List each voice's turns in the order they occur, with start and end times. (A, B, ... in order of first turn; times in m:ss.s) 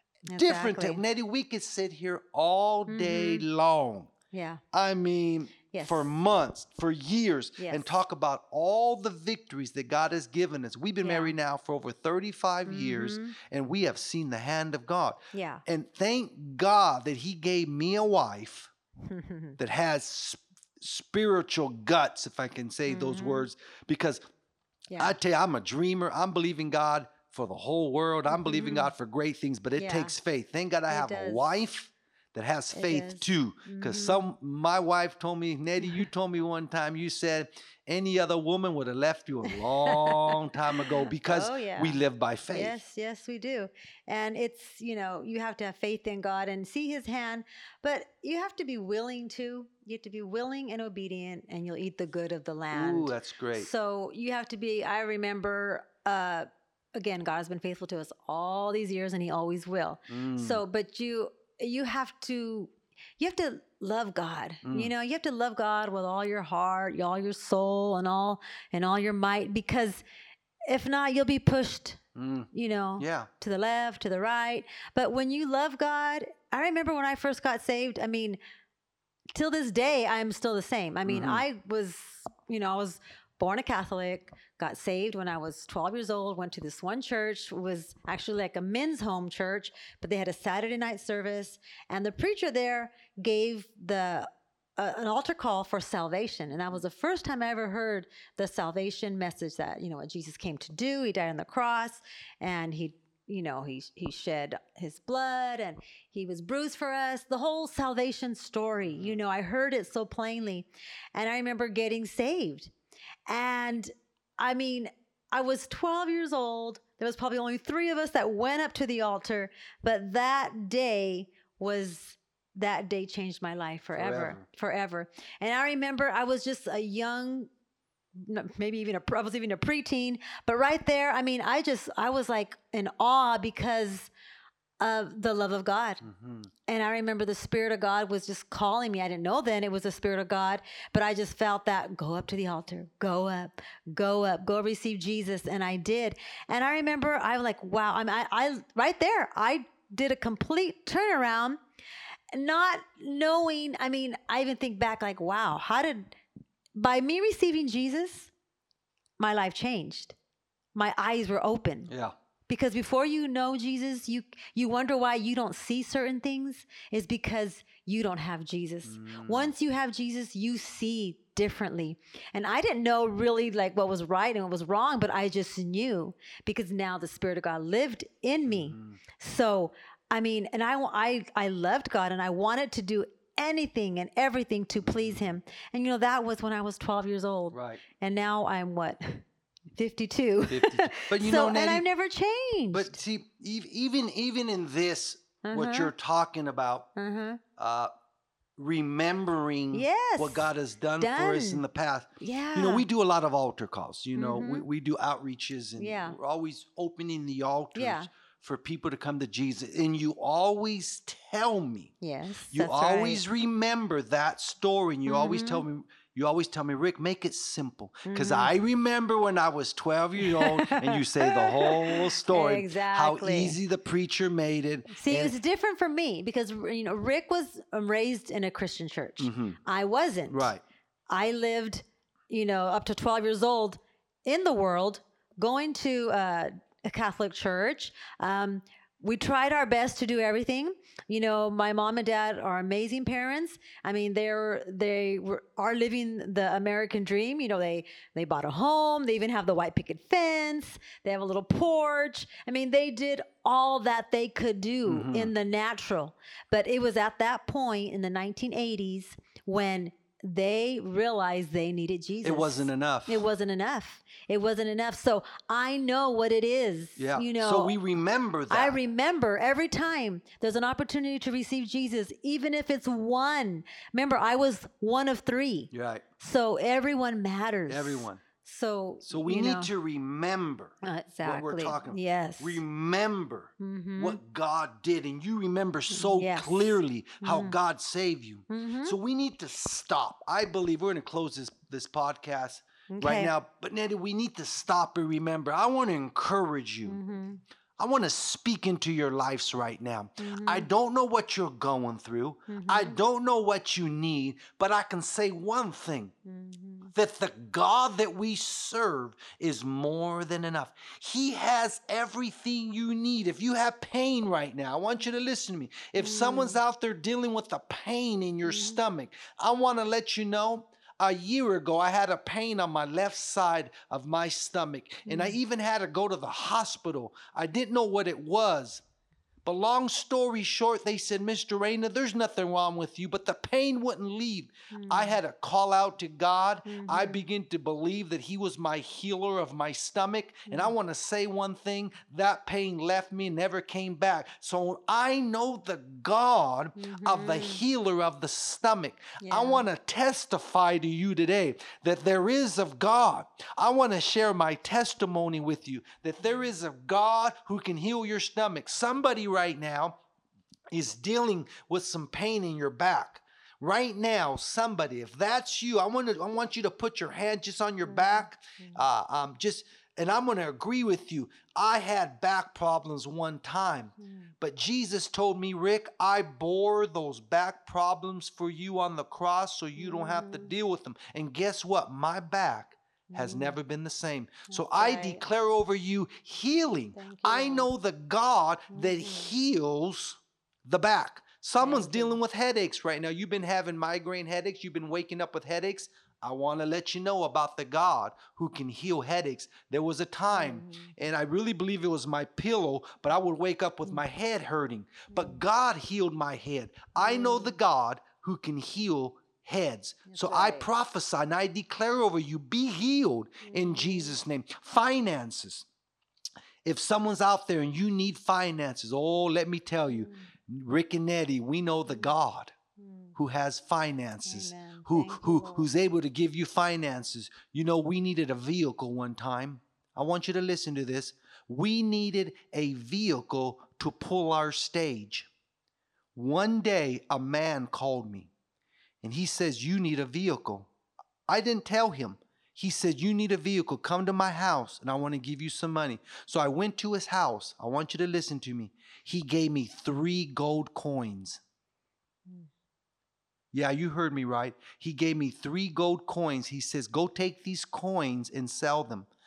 0:00.3-0:01.0 A
0:00.3-0:04.1 B
0:02.9-0:03.4 A
0:04.3-0:04.6 A
0:04.7-0:18.7 B
0:05.7-0:06.1 A
0:07.6-0:07.9 A
0:11.0-0:11.3 A
0:12.6-0:13.4 A
0:15.3-0:15.6 A
0:19.0-0:19.6 A
0:19.6-0:24.2 B
0:22.9-0:23.5 A
0:24.9-0:25.2 A
0:25.0-0:42.8 B
0:28.3-0:28.9 A
0:29.8-0:30.1 A
0:30.9-0:31.5 A
0:32.7-0:34.2 A
0:39.5-1:10.0 A
0:52.7-0:53.7 B
1:00.1-1:00.6 B
1:04.6-1:04.9 B
1:10.7-1:12.0 A
1:12.1-1:13.3 B
1:12.5-1:18.4 A
1:19.3-1:52.7 A
1:21.0-1:21.4 B
1:48.8-1:49.2 B
1:53.3-2:07.5 A
2:03.9-2:04.4 B
2:08.2-2:14.1 A
2:14.8-2:16.0 A
2:16.0-2:16.5 B
2:16.7-2:31.6 A
2:32.3-2:36.1 A
2:36.8-2:38.3 A
2:39.2-2:40.2 A
2:40.7-2:41.9 A
2:41.9-2:42.1 B
2:42.5-3:09.2 A
2:48.8-2:49.5 B
2:58.5-2:59.0 B
3:04.8-3:05.3 B
3:07.5-3:07.8 B
3:09.8-3:13.0 A
3:10.5-3:11.8 B
3:12.7-3:16.9 B
3:15.4-3:15.9 A
3:17.0-3:17.4 A
3:17.6-3:17.9 B
3:18.6-3:31.9 B
3:19.7-3:20.5 A
3:21.0-3:21.6 A
3:22.2-3:22.8 A
3:24.1-3:24.6 A
3:25.8-3:26.2 A
3:27.7-3:28.1 A
3:32.0-3:33.2 A
3:32.5-3:45.3 B
3:35.0-3:35.6 A
3:38.0-3:38.5 A
3:40.2-3:43.6 A
3:44.9-3:50.5 A
3:49.2-3:49.6 B
3:50.3-3:50.6 B
3:51.1-4:27.8 A
4:14.8-4:15.3 B
4:22.2-4:23.2 B
4:27.0-4:28.8 B
4:28.5-4:39.7 A
4:35.7-4:36.0 B
4:37.7-4:38.2 B
4:39.0-4:57.0 B
4:40.8-4:42.6 A
4:43.6-4:44.2 A
4:45.9-4:47.6 A
4:48.5-4:49.0 A
4:52.9-4:53.3 A
4:56.8-4:57.4 A
4:57.8-5:06.1 B
5:00.2-5:00.7 A
5:02.5-5:03.0 A
5:06.2-5:06.9 A
5:06.9-5:28.8 B
5:16.0-5:16.6 A
5:18.4-5:18.8 A
5:25.0-5:25.4 A
5:29.4-6:00.0 B
5:34.7-5:35.2 A
5:36.7-5:37.2 A
5:40.5-5:40.7 A
5:46.8-5:47.6 A
5:49.2-5:49.6 A
6:00.7-6:55.6 B
6:07.8-6:08.8 A
6:19.8-6:20.5 A
6:23.1-6:23.6 A
6:24.5-6:25.2 A
6:26.9-6:27.7 A
6:28.7-6:29.3 A
6:31.6-6:32.2 A
6:40.3-6:40.9 A
6:45.1-6:45.4 A
6:47.0-6:47.6 A
6:50.1-6:50.7 A
6:53.4-6:54.1 A
6:56.6-7:02.5 B
6:59.9-7:00.3 A
7:02.8-7:03.1 A
7:03.2-7:15.3 B
7:04.2-7:05.7 A
7:16.1-7:18.3 B
7:19.0-7:20.7 B
7:21.3-7:31.4 B
7:33.5-7:39.1 B